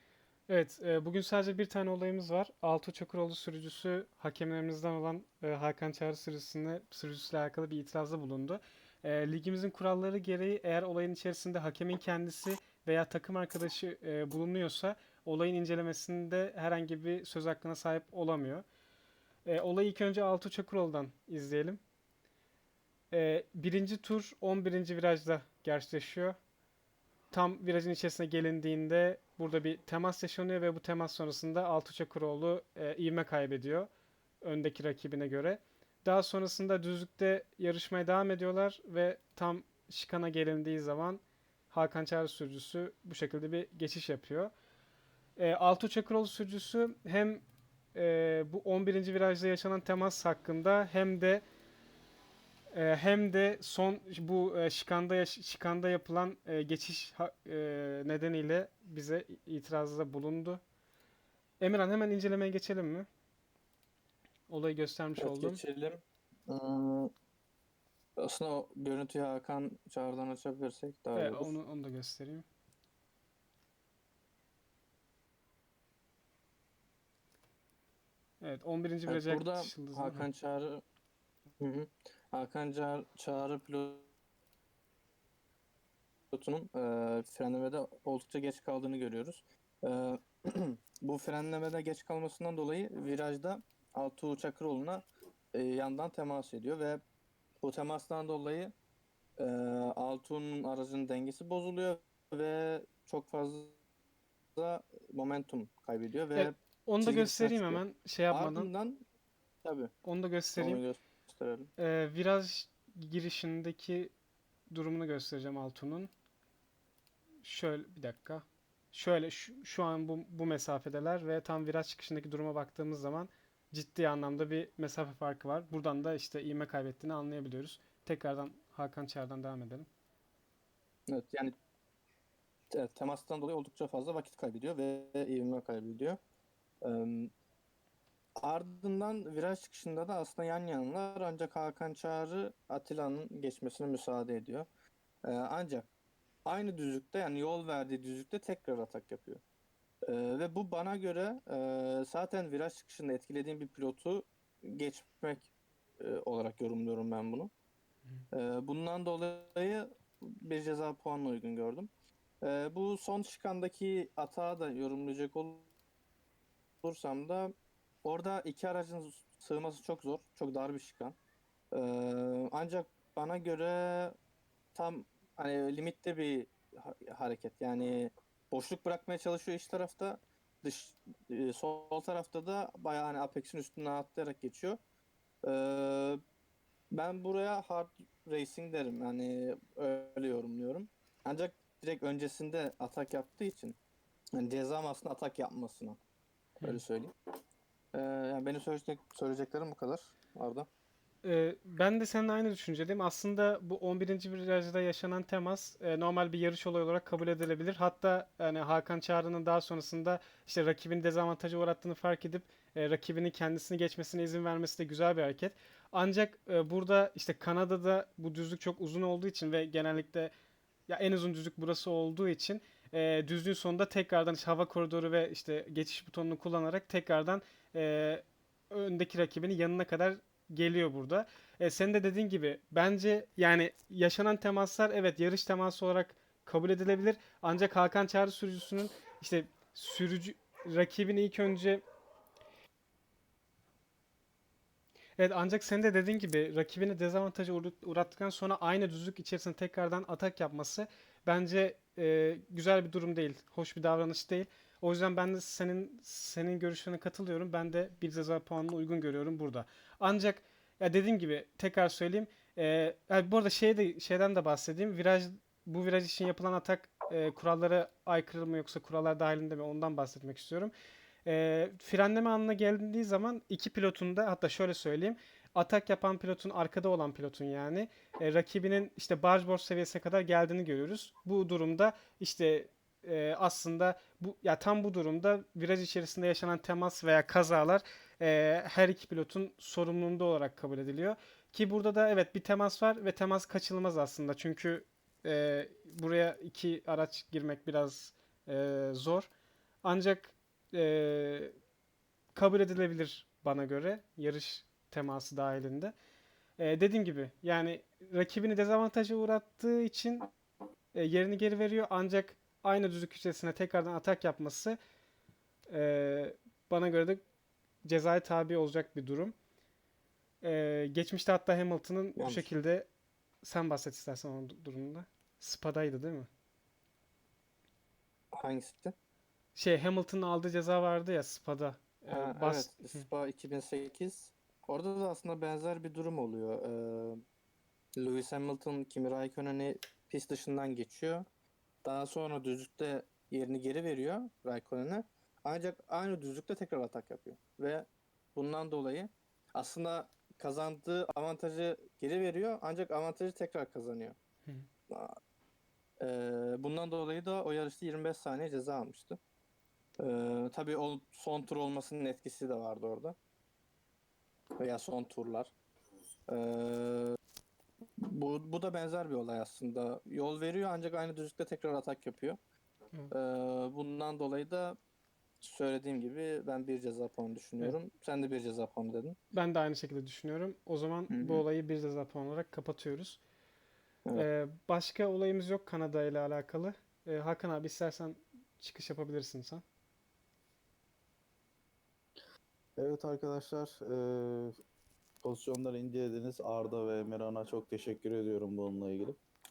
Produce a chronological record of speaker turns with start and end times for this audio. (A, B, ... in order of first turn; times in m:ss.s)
0:00.5-0:18.6 A
0:19.4-0:21.8 A
0:23.1-0:26.4 A
0:27.3-0:33.9 A
0:34.4-0:44.5 A
0:45.4-0:51.4 A
0:52.7-1:00.6 A
1:01.6-1:03.1 A
1:04.5-1:05.6 A
1:05.2-1:07.1 B
1:08.2-1:11.6 B
1:11.1-1:12.4 A
1:18.4-1:20.3 A
1:19.1-1:20.8 B
1:21.6-1:24.1 B
1:26.3-1:37.0 B
1:37.6-1:38.7 B
1:39.4-1:43.8 B
1:44.6-1:49.0 B
1:46.3-1:48.7 A
1:49.6-1:49.9 B
1:50.0-1:50.8 A
1:50.6-1:51.7 B
1:51.8-1:54.1 A
1:54.7-1:56.1 A
1:57.4-2:09.9 A
2:11.1-2:11.5 B
2:12.7-2:16.2 B
2:16.8-2:17.3 B
2:18.4-2:24.7 B
2:25.2-2:25.9 B
2:26.4-2:29.4 B
2:30.1-2:37.5 B
2:38.3-2:41.9 B
2:42.4-2:45.7 B
2:46.8-2:47.5 B
2:48.0-2:51.2 B
2:51.7-2:54.1 B
2:54.8-3:04.8 B
3:05.4-3:06.2 B
3:06.9-3:13.8 B
3:14.3-3:16.0 B
3:16.6-3:17.1 B
3:17.9-3:20.7 B
3:21.2-3:40.3 A
3:40.9-4:01.8 A
4:05.2-4:30.7 A
4:31.2-4:59.3 A
4:59.8-5:01.5 A
5:02.3-5:05.9 A
5:06.6-5:10.3 A
5:10.9-5:14.8 A
5:15.7-5:17.2 A
5:17.8-5:19.3 A
5:20.4-5:22.9 A
5:22.2-5:22.5 B
5:23.4-5:26.3 A
5:28.4-5:28.9 B
5:29.6-5:33.1 A
5:32.1-5:37.2 B
5:38.0-5:41.2 B
5:41.8-5:54.2 B
5:54.9-5:55.1 B
5:56.0-5:59.2 B
6:00.0-6:03.2 B
6:04.6-6:05.5 B
6:06.3-6:07.1 B
6:08.0-6:12.4 B
6:13.1-6:14.8 B
6:15.4-6:19.2 B
6:19.3-6:23.2 A
6:21.1-6:21.4 B
6:24.1-6:29.6 A
6:32.8-6:34.5 C
6:35.2-6:39.2 C